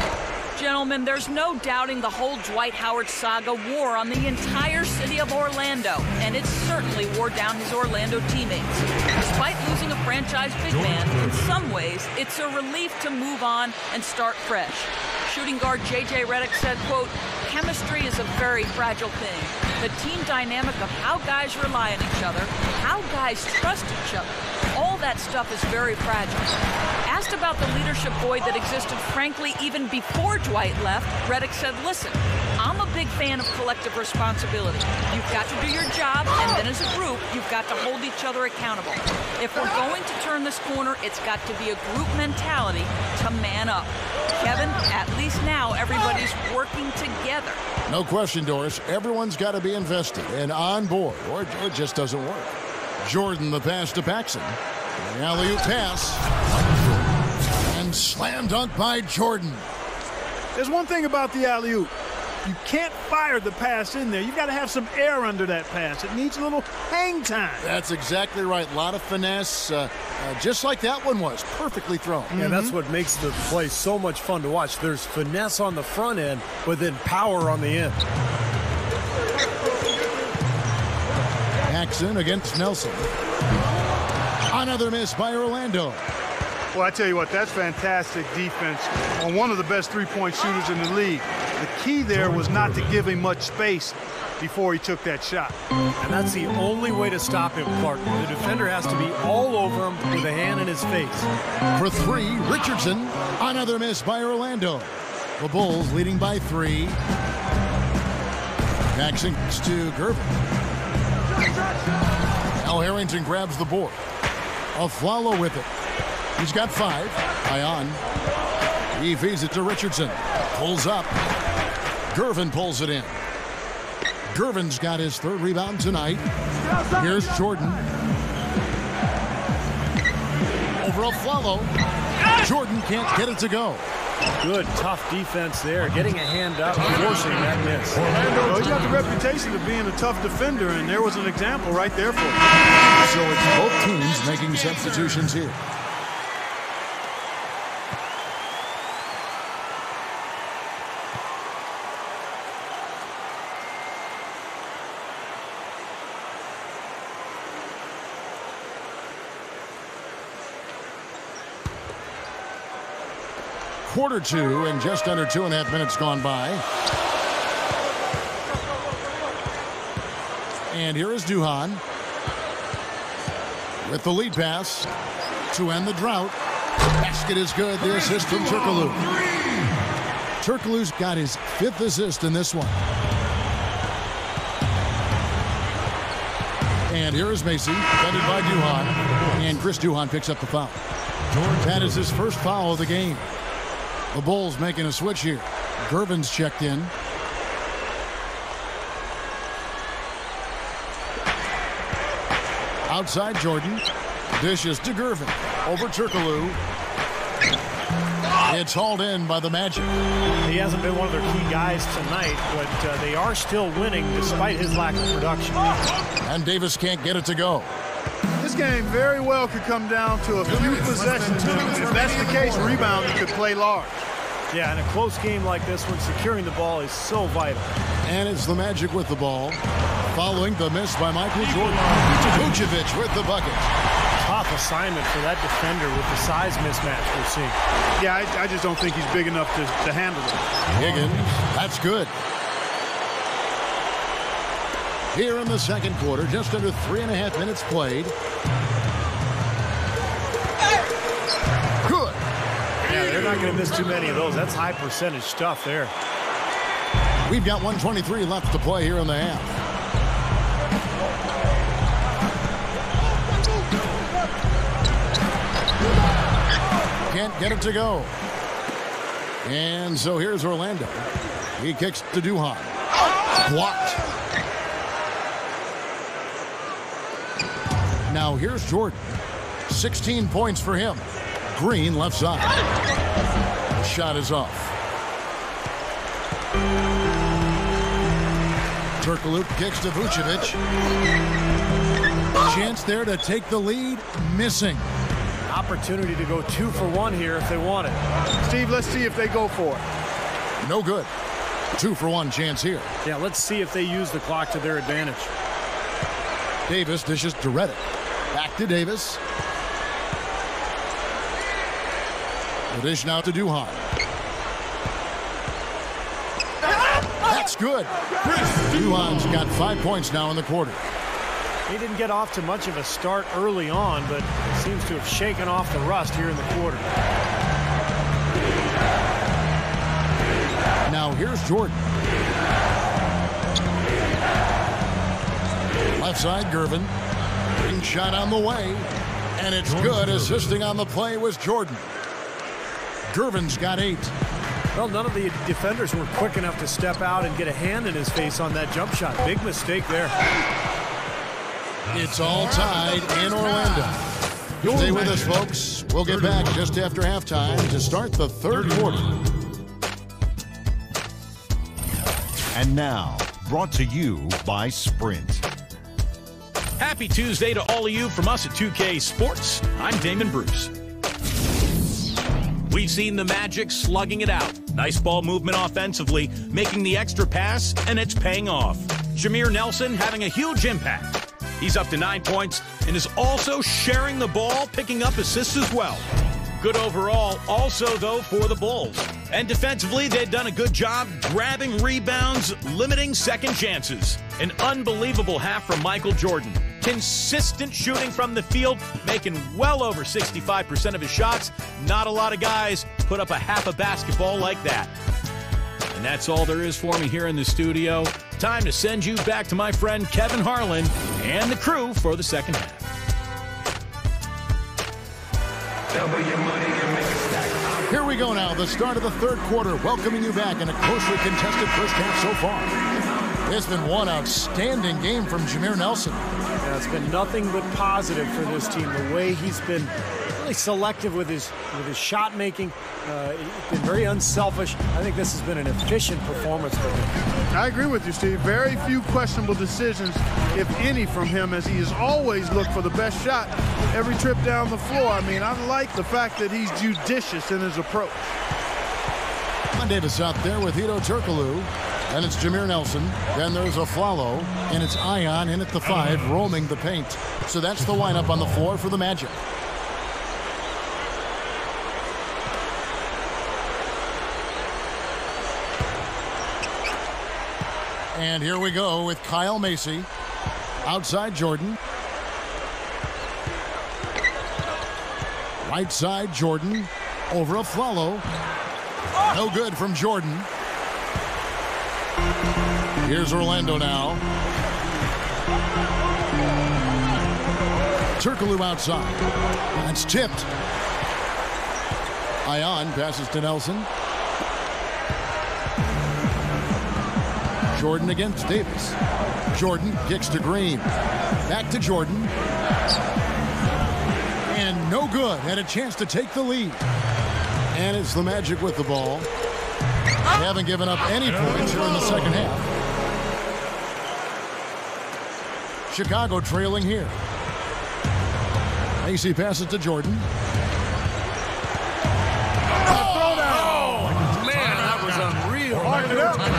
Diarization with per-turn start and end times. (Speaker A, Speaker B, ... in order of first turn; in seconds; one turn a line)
Speaker A: 0.6-26.5
Speaker B: 10.9-11.4
Speaker A: 27.1-47.6
Speaker C: 47.9-56.8
Speaker C: 57.6-59.6
Speaker D: 60.5-61.9
Speaker D: 62.4-67.7
Speaker C: 67.6-72.4
Speaker D: 72.3-72.8
Speaker E: 72.3-78.0
Speaker C: 81.7-83.1
Speaker C: 84.5-86.0
Speaker D: 86.7-95.5
Speaker E: 96.0-101.3
Speaker C: 101.7-107.0
Speaker C: 108.9-110.4
Speaker C: 112.6-114.0
Speaker C: 114.8-115.7
Speaker C: 116.4-118.0
Speaker C: 118.9-121.1
Speaker C: 122.1-123.2
Speaker C: 124.3-126.2
Speaker C: 127.0-127.9
Speaker C: 130.8-131.7
Speaker C: 132.4-133.8
Speaker E: 134.4-138.1
Speaker D: 138.4-142.4
Speaker C: 143.0-145.6
Speaker C: 163.9-166.6
Speaker C: 170.7-171.8
Speaker C: 173.8-174.9
Speaker C: 175.5-176.4
Speaker C: 177.0-179.1
Speaker C: 180.4-182.8
Speaker C: 186.9-190.8
Speaker C: 191.5-193.3
Speaker C: 194.1-196.9
Speaker C: 202.9-203.8
Speaker C: 204.4-206.6
Speaker C: 208.4-209.9
Speaker E: 210.4-215.8
Speaker C: 216.2-217.7
Speaker D: 218.4-224.0
Speaker E: 224.5-227.8
Speaker C: 228.0-229.6
Speaker C: 230.1-233.7
Speaker E: 234.2-237.6
Speaker D: 238.0-240.5
Speaker C: 240.7-242.1
Speaker C: 245.1-248.1
Speaker C: 251.8-252.2
Speaker E: 252.8-255.9
Speaker C: 257.2-259.6
Speaker C: 267.1-268.1
Speaker C: 269.4-272.8
Speaker C: 273.4-274.0
Speaker C: 278.1-279.1
Speaker C: 279.7-282.6
Speaker C: 283.7-284.7
Speaker C: 289.0-290.6
Speaker C: 292.4-294.9
Speaker E: 295.5-298.0
Speaker D: 298.4-299.9
Speaker C: 300.6-301.1
Speaker C: 301.8-302.9
Speaker E: 303.0-305.3
Speaker C: 306.7-309.2
Speaker C: 312.7-313.9
Speaker C: 317.2-320.8
Speaker E: 321.7-326.9
Speaker C: 330.9-331.9
Speaker C: 336.0-336.9
Speaker C: 337.6-341.9
Speaker C: 343.1-344.1
Speaker E: 344.7-350.2
Speaker C: 351.9-354.0
Speaker C: 354.6-359.2
Speaker F: 362.5-365.4
Speaker B: 366.8-370.7
Speaker B: 372.7-386.1
Speaker B: 386.6-404.9
Speaker B: 405.9-412.8
Speaker C: 417.9-422.8
Speaker C: 423.4-426.2
Speaker E: 426.6-437.2
Speaker D: 437.5-448.3
Speaker C: 449.7-459.4
Speaker C: 468.1-470.1
Speaker C: 470.8-471.8
Speaker C: 475.6-478.2
Speaker C: 479.3-480.5
Speaker C: 483.0-484.2
Speaker C: 488.2-490.5
Speaker C: 492.4-493.9
Speaker C: 497.7-499.0
Speaker C: 499.5-500.9
Speaker C: 501.5-502.3
Speaker C: 504.5-506.8
Speaker C: 507.7-509.3
Speaker C: 510.3-512.7
Speaker C: 515.9-517.2
Speaker C: 519.0-520.2
Speaker E: 522.9-526.5
Speaker D: 525.8-526.4